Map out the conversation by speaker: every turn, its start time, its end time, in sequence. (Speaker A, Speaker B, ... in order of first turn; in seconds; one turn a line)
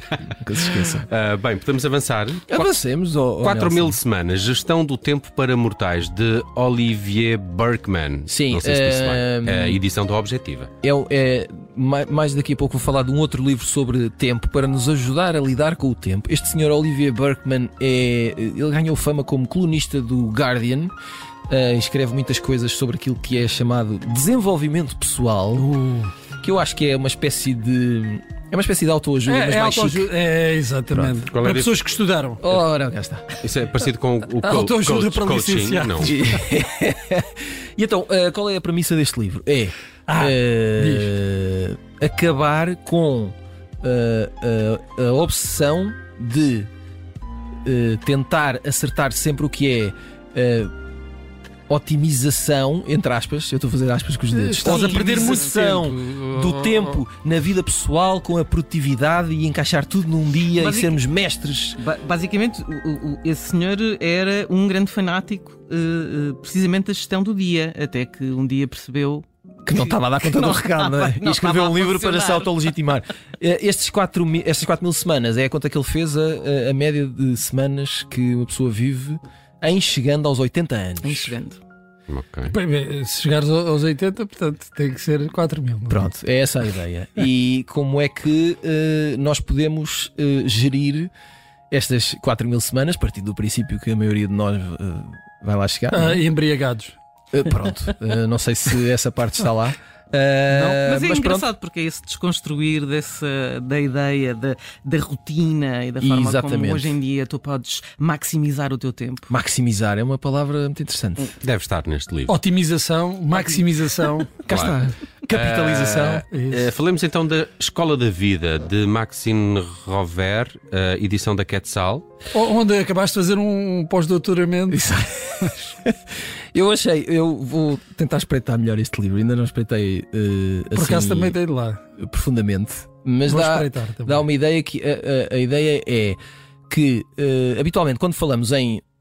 Speaker A: 0.4-1.1
Speaker B: 1.1-2.7
Speaker A: 2.5-4.0
Speaker B: 3.4-10.7
Speaker A: 8.3-9.8
Speaker A: 10.8-20.9
Speaker A: 21.5-25.7
Speaker C: 25.6-26.1
Speaker A: 26.4-30.1
Speaker C: 29.3-32.5
Speaker B: 31.2-31.8
Speaker A: 32.4-33.3
Speaker B: 33.4-36.1
Speaker C: 34.4-36.4
Speaker A: 36.0-46.7
Speaker C: 40.1-41.2
Speaker A: 47.6-50.7
Speaker A: 51.7-61.8
Speaker C: 54.3-57.0
Speaker D: 54.6-55.7
Speaker D: 60.6-61.0
Speaker D: 61.8-72.7
Speaker A: 69.7-81.4
Speaker D: 81.0-81.6
Speaker B: 82.1-82.5
Speaker C: 82.5-86.0
Speaker A: 85.9-91.1
Speaker A: 91.7-96.2
Speaker C: 95.9-97.0
Speaker A: 97.3-101.5
Speaker D: 100.5-109.3
Speaker A: 106.0-107.0
Speaker A: 109.3-111.3
Speaker B: 111.4-112.3
Speaker C: 112.3-114.3
Speaker D: 113.3-113.6
Speaker A: 114.4-116.2
Speaker B: 114.5-114.8
Speaker B: 115.3-122.1
Speaker C: 116.3-116.7
Speaker C: 122.3-124.9
Speaker A: 124.7-126.0
Speaker A: 126.5-131.4
Speaker C: 130.7-131.8
Speaker A: 132.0-136.2
Speaker C: 133.3-134.2
Speaker A: 136.7-138.8